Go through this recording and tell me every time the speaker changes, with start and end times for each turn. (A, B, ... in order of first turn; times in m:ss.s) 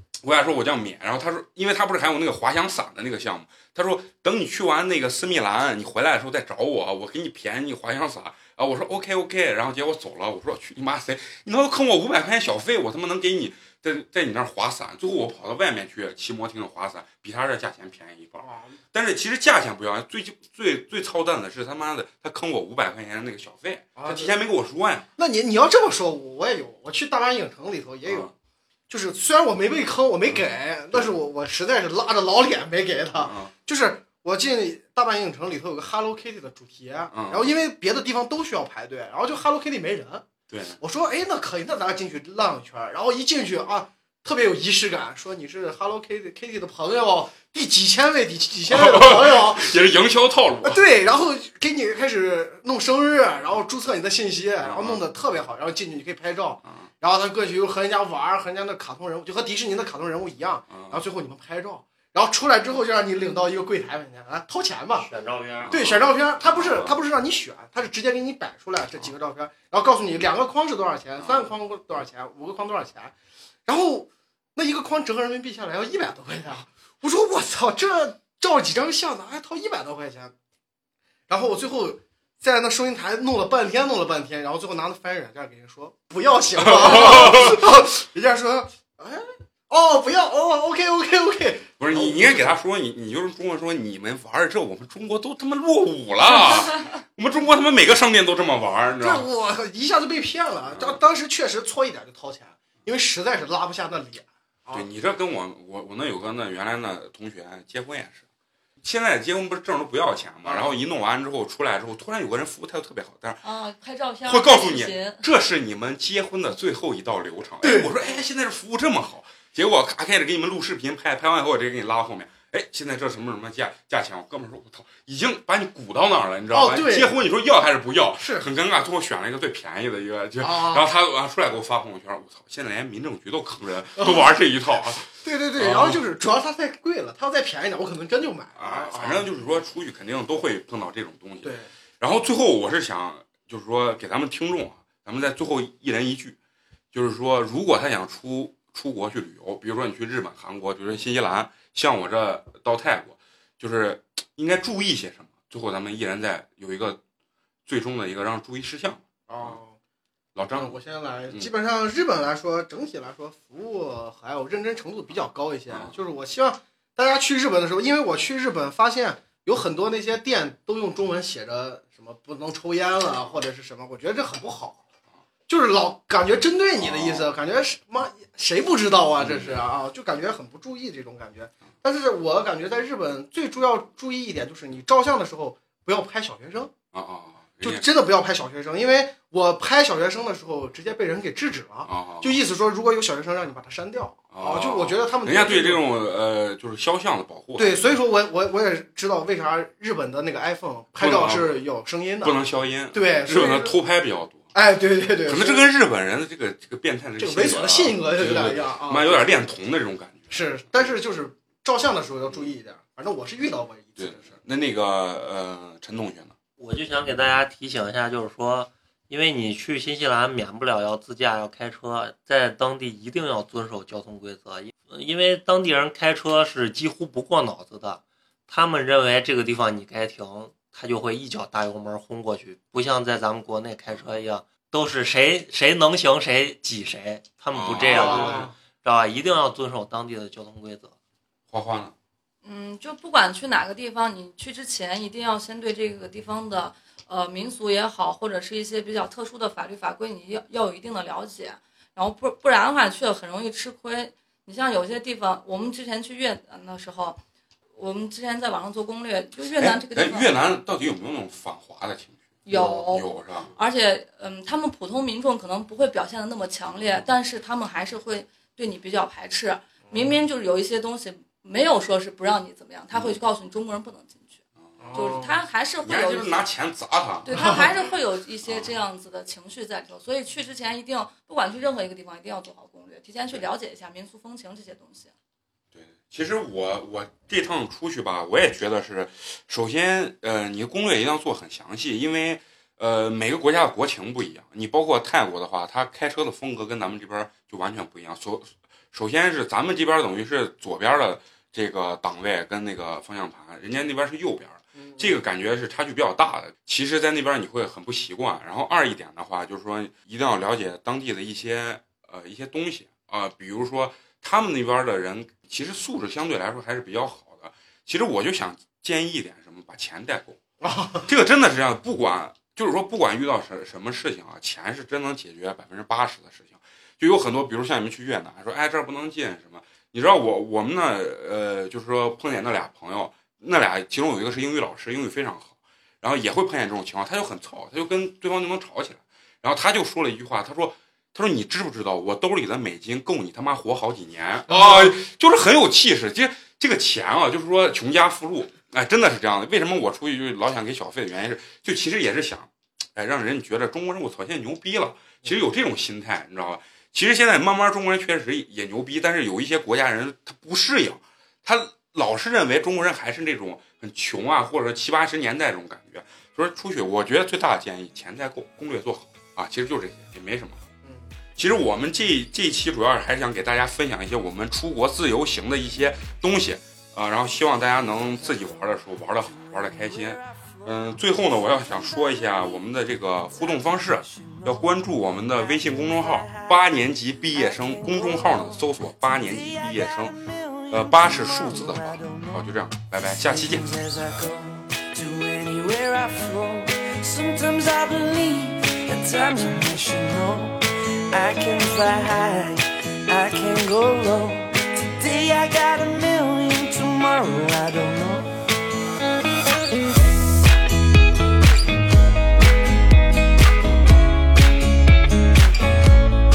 0:00.2-0:25.1 A
0:18.4-0:18.8 B
0:24.0-0:24.3 B
0:25.2-0:28.3 B
0:28.1-0:28.3 A
0:28.9-0:40.3 B
0:30.3-0:31.1 A
0:33.2-0:33.5 A
0:37.1-0:37.5 A
0:40.5-0:40.8 A
0:40.8-0:49.8 B
0:48.7-0:50.8 A
0:50.6-1:05.1 B
0:54.6-0:55.0 A
1:00.7-1:01.0 A
1:04.9-1:05.8 C
1:05.7-1:07.0 A
1:05.7-1:13.1 B
1:11.2-1:11.5 A
1:13.7-1:20.3 B
1:21.3-1:32.6 B
1:26.6-1:27.7 A
1:31.8-1:39.2 A
1:39.0-1:44.9 B
1:40.7-1:41.0 A
1:44.7-1:48.2 A
1:48.8-1:53.4 A
1:50.4-1:50.8 B
1:53.4-1:55.2 D
1:54.3-2:16.0 A
1:57.6-1:57.9 B
2:06.5-2:07.2 B
2:08.2-2:08.5 B
2:10.4-2:10.9 B
2:14.0-2:14.3 B
2:15.1-2:19.4 B
2:18.6-2:26.4 A
2:21.4-2:21.7 B
2:26.9-2:37.0 A
2:37.7-2:39.6 A
2:39.3-2:39.8 B
2:40.4-2:40.8 A
2:40.5-2:54.8 B
2:55.5-3:06.7 B
2:56.8-2:57.3 A
2:59.2-2:59.6 A
3:06.9-3:07.8 A
3:07.6-3:15.8 B
3:11.9-3:12.4 A
3:14.3-3:18.0 A
3:17.6-3:22.4 B
3:21.0-3:21.5 A
3:22.2-3:24.5 A
3:22.9-3:23.8 B
3:24.5-3:25.7 B
3:25.3-3:31.0 A
3:27.2-3:29.3 B
3:30.3-3:34.3 B
3:34.0-3:36.3 A
3:36.6-4:00.9 C
3:57.5-3:58.5 A
3:57.8-3:58.5 B
4:01.5-4:01.9 A
4:02.4-4:17.2 D
4:17.8-4:20.4 D
4:19.6-4:23.5 A
4:22.4-4:34.4 D
4:34.8-4:35.4 B
4:34.8-4:35.1 A
4:35.0-4:36.5 D
4:35.8-4:37.6 A
4:37.3-4:45.1 D
4:37.4-4:37.6 B
4:38.4-4:38.7 A
4:45.7-5:20.4 A
5:04.8-5:05.2 B
5:20.6-5:21.1 B
5:21.0-6:10.6 A
5:44.5-5:45.0 B
6:10.8-6:11.1 B
6:11.4-6:30.2 A
6:17.8-6:18.7 E
6:19.2-6:48.4 E
6:30.7-6:33.7 A